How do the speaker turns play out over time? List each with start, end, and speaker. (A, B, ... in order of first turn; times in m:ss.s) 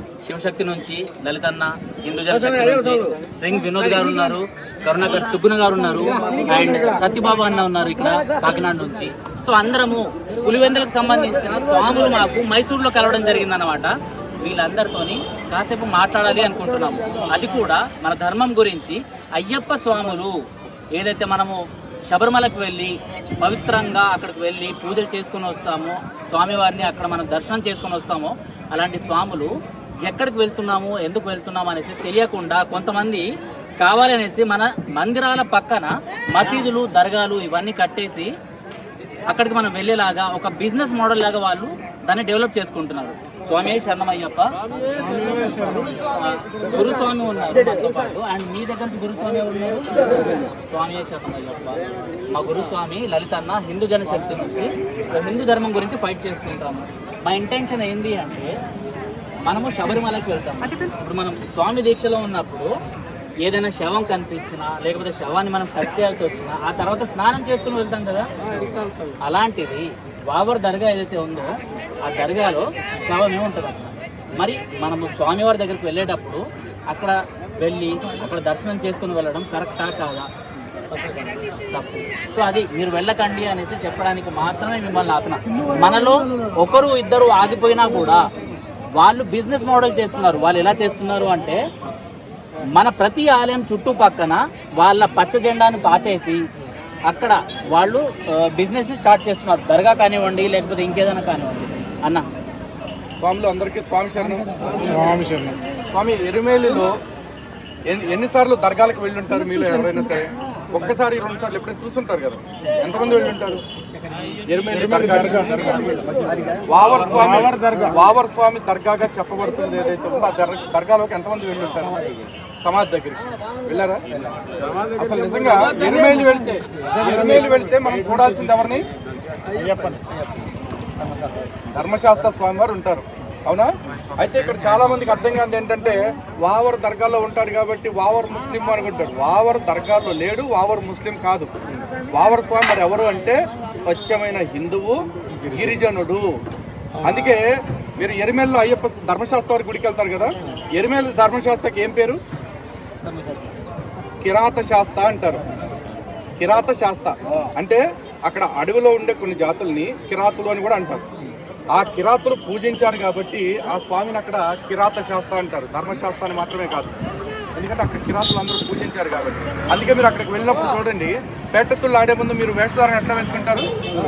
0:00.2-0:20.4 A
0:20.9-0:29.5 A
0:30.0-0:33.2 A
0:33.8-0:38.3 A
0:39.3-0:44.5 A
0:45.2-0:58.5 A
0:45.2-0:45.8 B
0:59.4-1:02.7 A
1:03.4-1:20.3 A
1:21.6-1:28.2 A
1:29.0-1:31.6 A
1:32.8-1:36.4 A
1:37.1-1:42.2 A
1:43.2-1:44.7 C
1:44.8-1:45.6 B
1:45.9-1:46.9 C
1:47.9-1:53.6 C
1:54.5-2:02.0 C
1:54.8-1:56.6 B
1:57.3-1:57.9 B
2:02.6-2:04.2 C
2:04.9-2:08.8 C
2:09.5-2:10.0 B
2:11.0-2:11.5 B
2:11.7-2:21.5 C
2:22.1-2:26.3 C
2:27.0-2:32.2 C
2:33.1-2:33.4 B
2:34.2-2:35.4 C
2:36.4-2:41.0 C
2:41.7-2:47.0 C
2:47.5-2:53.7 C